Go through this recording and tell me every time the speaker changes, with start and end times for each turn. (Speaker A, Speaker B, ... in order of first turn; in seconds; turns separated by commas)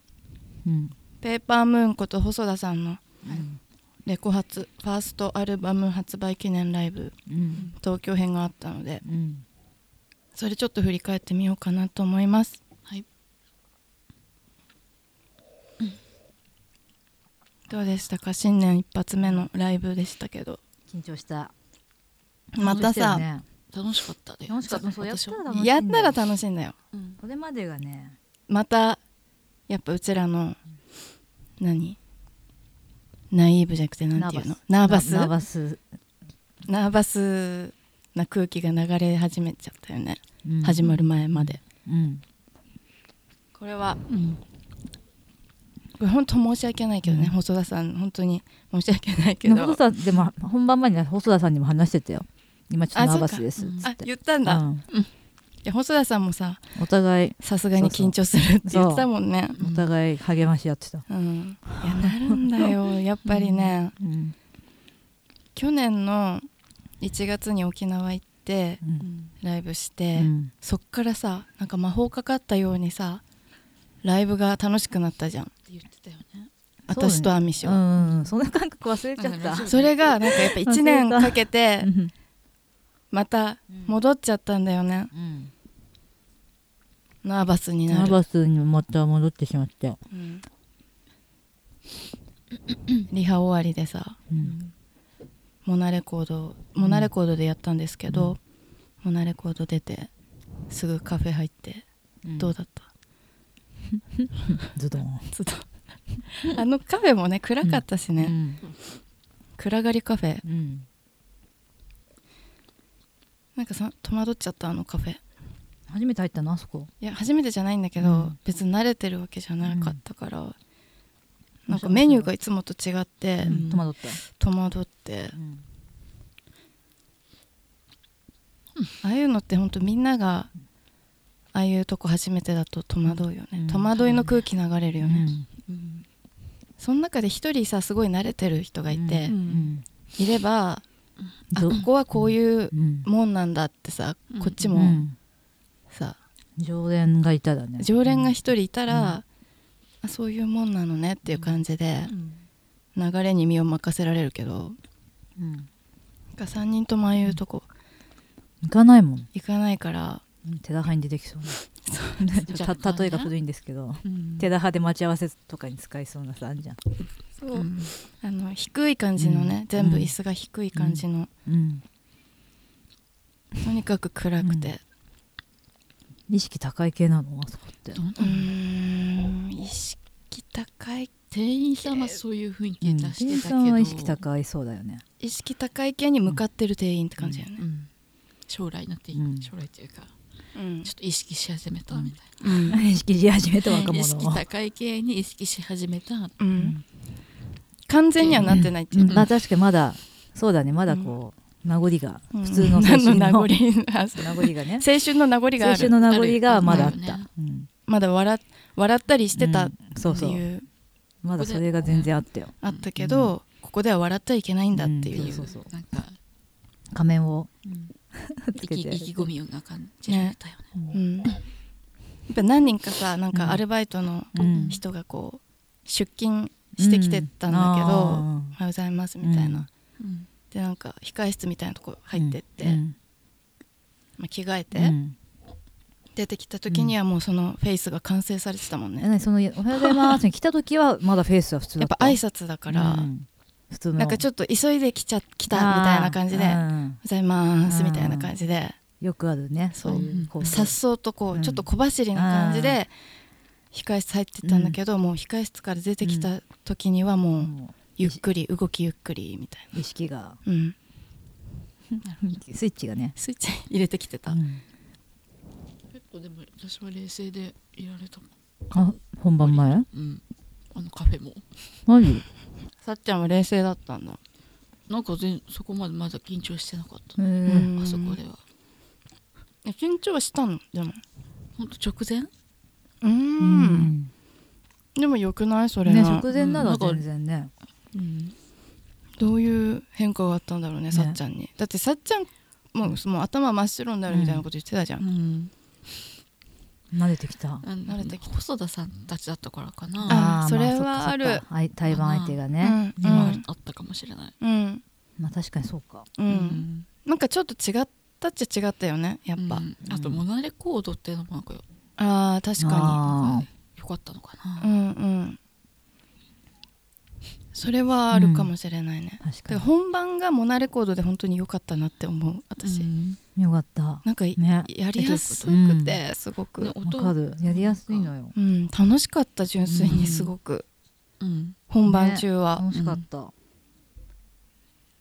Speaker A: 0.6-0.9, Speaker B: 1.2-3.0, Speaker A: 3.3-3.6, Speaker B: 4.0-7.1, Speaker A: 7.2-7.7, Speaker B: 7.8-9.0, Speaker A: 9.0-9.4, Speaker B: 10.3-12.6, Speaker B: 17.7-20.6, Speaker A: 20.9-21.5, Speaker B: 22.5-23.2, Speaker A: 22.6-23.4, Speaker C: 22.6-23.0, Speaker C: 23.7-25.4, Speaker A: 24.5-26.1, Speaker B: 25.4-26.8, Speaker C: 26.9-27.2, Speaker A: 27.2-28.2, Speaker B: 28.5-29.0, Speaker B: 29.7-30.6, Speaker B: 31.6-32.0, Speaker B: 33.3-35.3, Speaker A: 34.1-35.8, Speaker B: 36.6-41.6, Speaker A: 40.4-42.2, Speaker B: 43.6-44.0, Speaker C: 44.1-44.4, Speaker B: 46.0-49.8, Speaker A: 47.0-47.3, Speaker A: 49.4-54.8, Speaker B: 52.9-54.6, Speaker C: 53.6-53.9, Speaker B: 55.6-56.6, Speaker A: 56.8-61.0, Speaker B: 57.4-59.6, Speaker C: 59.6-59.9, Speaker B: 61.1-63.9, Speaker A: 61.8-62.7, Speaker C: 63.2-63.8, Speaker A: 64.0-64.3, Speaker B: 65.5-66.5, Speaker B: 67.0-68.8, Speaker A: 68.8-69.1, Speaker C: 69.0-69.3, Speaker B: 69.4-73.2, Speaker A: 70.2-70.5, Speaker B: 74.0-75.5, Speaker C: 75.7-76.5, Speaker A: 76.9-79.7, Speaker B: 76.9-77.8, Speaker C: 78.0-78.3, Speaker C: 79.2-79.9, Speaker B: 79.7-81.9, Speaker A: 80.2-82.1, Speaker B: 83.1-85.1, Speaker A: 85.1-85.5, Speaker B: 87.2-88.2, Speaker A: 87.9-90.0, Speaker B: 90.1-90.4, Speaker B: 93.1-94.2, Speaker A: 94.3-94.5, Speaker C: 94.4-94.7, Speaker B: 95.6-98.4, Speaker A: 96.8-97.1, Speaker A: 98.1-98.3, Speaker B: 99.0-100.1, Speaker B: 100.7-101.8, Speaker A: 102.2-102.5, Speaker B: 102.4-102.9, Speaker A: 103.9-105.3, Speaker B: 105.3-105.7, Speaker B: 106.3-108.3, Speaker A: 107.6-108.6, Speaker B: 109.6-110.4, Speaker A: 110.4-110.9, Speaker B: 113.5-115.2, Speaker A: 115.9-116.9, Speaker B: 117.0-120.5, Speaker A: 118.0-118.3, Speaker A: 119.7-120.0, Speaker B: 121.7-125.4, Speaker A: 121.7-122.3, Speaker A: 123.4-124.2, Speaker C: 123.5-123.8, Speaker A: 125.3-125.6, Speaker B: 129.0-130.5, Speaker B: 131.5-135.3, Speaker A: 133.5-133.9, Speaker C: 133.9-134.4, Speaker A: 135.0-135.5, Speaker C: 135.7-136.1, Speaker B: 136.8-139.3, Speaker A: 138.9-139.8, Speaker C: 139.3-139.7, Speaker B: 140.2-140.8, Speaker C: 141.2-141.9, Speaker A: 141.5-143.1, Speaker B: 141.5-145.0, Speaker C: 144.3-144.7, Speaker A: 144.7-145.1, Speaker B: 145.9-146.2, Speaker A: 146.6-148.3, Speaker B: 147.8-149.2, Speaker A: 148.9-149.2, Speaker B: 150.0-152.1, Speaker C: 152.1-152.4, Speaker B: 152.9-154.8, Speaker A: 155.4-155.7, Speaker B: 156.4-157.7, Speaker A: 158.6-159.3, Speaker B: 159.3-160.2, Speaker A: 160.4-161.6, Speaker B: 161.8-162.3, Speaker A: 162.2-166.8, Speaker C: 162.5-163.3, Speaker C: 164.0-164.5, Speaker B: 167.4-167.7, Speaker C: 167.5-167.9, Speaker B: 168.2-171.3, Speaker A: 169.2-170.1, Speaker A: 170.7-171.8, Speaker B: 173.6-174.8, Speaker A: 174.4-174.7, Speaker A: 176.3-178.0, Speaker C: 177.9-178.5, Speaker B: 178.2-181.2, Speaker C: 181.3-184.2, Speaker B: 181.8-182.2, Speaker A: 182.8-185.0, Speaker B: 185.2-187.6, Speaker C: 187.5-187.9, Speaker C: 188.5-190.1, Speaker A: 189.1-189.5, Speaker B: 190.5-190.9, Speaker C: 190.8-192.6, Speaker B: 192.4-192.8, Speaker A: 192.7-194.4, Speaker C: 193.6-196.4, Speaker B: 196.4-196.8, Speaker A: 196.6-196.8, Speaker B: 197.9-199.3, Speaker C: 198.2-199.3, Speaker A: 198.4-203.5, Speaker B: 202.3-206.0, Speaker A: 204.2-204.8, Speaker A: 205.6-207.7, Speaker C: 205.9-207.3, Speaker B: 206.6-206.9, Speaker B: 207.9-210.7, Speaker A: 209.4-210.4, Speaker A: 211.2-213.3, Speaker C: 211.3-212.1, Speaker B: 212.6-215.5, Speaker A: 214.7-215.7, Speaker C: 215.1-216.2, Speaker A: 216.9-217.5, Speaker C: 217.6-217.9, Speaker A: 218.1-219.3, Speaker C: 218.6-220.9, Speaker B: 220.1-220.3, Speaker B: 220.9-221.3, Speaker B: 222.3-229.7, Speaker A: 223.3-223.6, Speaker A: 224.3-224.8, Speaker C: 224.4-224.8, Speaker A: 226.8-228.6, Speaker A: 229.2-229.7, Speaker C: 230.0-230.3, Speaker B: 230.5-232.8, Speaker A: 232.2-232.9, Speaker B: 234.2-234.9, Speaker A: 234.7-235.2, Speaker B: 236.1-239.1, Speaker A: 236.7-236.9, Speaker A: 239.0-244.2, Speaker B: 241.8-243.1, Speaker B: 244.0-248.8, Speaker A: 245.5-247.0, Speaker A: 247.7-248.3, Speaker A: 249.0-250.8, Speaker B: 249.7-252.9, Speaker C: 249.9-250.7, Speaker A: 251.3-252.8, Speaker B: 253.7-259.8, Speaker A: 254.4-254.8, Speaker A: 256.0-256.3, Speaker A: 257.4-258.2, Speaker A: 259.7-260.4, Speaker B: 260.4-260.7, Speaker C: 262.0-262.4, Speaker A: 262.2-263.1, Speaker B: 263.1-264.4, Speaker A: 264.3-264.6, Speaker C: 265.9-270.2, Speaker A: 268.7-269.9, Speaker C: 270.7-271.4, Speaker A: 271.9-272.2, Speaker B: 272.8-274.2, Speaker C: 274.9-278.4, Speaker A: 277.2-277.7, Speaker B: 277.4-278.2, Speaker B: 279.6-281.0, Speaker C: 281.6-282.3, Speaker B: 283.0-283.9, Speaker A: 283.4-284.1, Speaker B: 284.9-286.2, Speaker A: 285.9-287.5, Speaker C: 286.3-287.0, Speaker C: 287.9-288.3, Speaker B: 289.2-295.0, Speaker A: 290.9-291.2, Speaker C: 294.1-294.4, Speaker C: 295.0-295.5, Speaker A: 296.9-297.6, Speaker C: 297.6-300.2, Speaker B: 297.9-298.2, Speaker A: 300.0-303.3, Speaker B: 300.1-301.4, Speaker C: 301.9-302.4, Speaker B: 302.6-303.4, Speaker C: 303.0-304.3, Speaker B: 304.4-304.8, Speaker A: 305.2-306.1, Speaker B: 306.2-309.6, Speaker C: 306.3-306.9, Speaker C: 309.4-311.6, Speaker A: 309.9-310.2, Speaker B: 312.0-313.1, Speaker A: 312.6-313.5, Speaker C: 313.0-314.7, Speaker B: 314.6-315.4, Speaker B: 317.5-322.9, Speaker A: 318.1-318.5, Speaker A: 319.2-319.6, Speaker C: 322.6-323.2, Speaker A: 323.4-326.0, Speaker B: 324.0-326.7, Speaker C: 326.6-328.1, Speaker A: 326.8-328.3, Speaker B: 328.3-330.6, Speaker A: 329.7-330.1, Speaker C: 329.9-330.3, Speaker C: 331.2-331.6, Speaker B: 331.7-332.6, Speaker A: 331.9-333.3, Speaker C: 332.7-333.0